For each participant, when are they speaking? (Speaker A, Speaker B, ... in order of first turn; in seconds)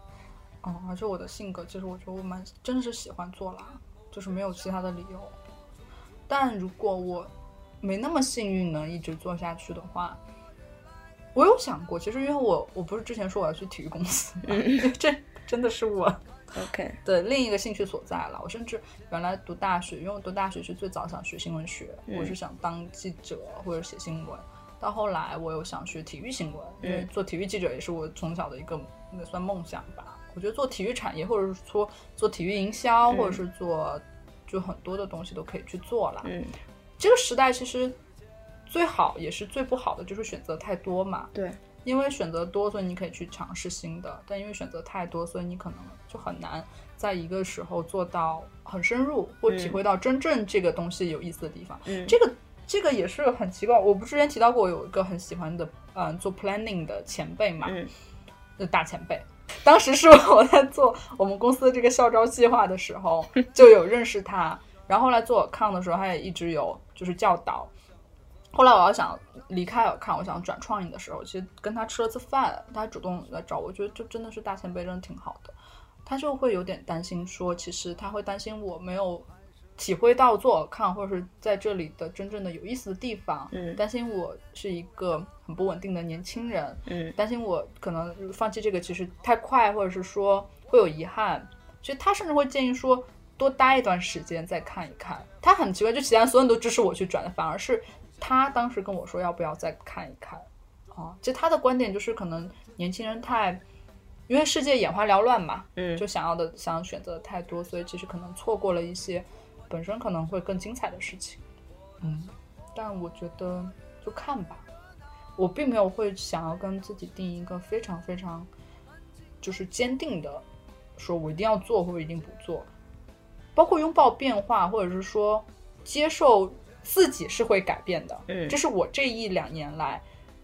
Speaker A: 0.6-5.3, 6.3-10.2, 11.3-16.2, 17.0-36.3, 37.0-38.0, 38.7-41.3, 41.8-57.8, 58.6-67.7, 68.5-103.6, 104.3-111.4, 112.0-114.7, 115.3-118.5, 119.4-120.4, 121.0-122.7, 123.5-130.0
Speaker B: 14.5-14.9, 16.5-17.0, 22.1-22.3, 26.8-27.1, 33.1-33.4, 36.2-36.5, 49.5-49.8, 51.9-52.1, 57.6-57.9, 83.5-83.8, 86.9-87.1, 105.8-106.0, 128.3-128.6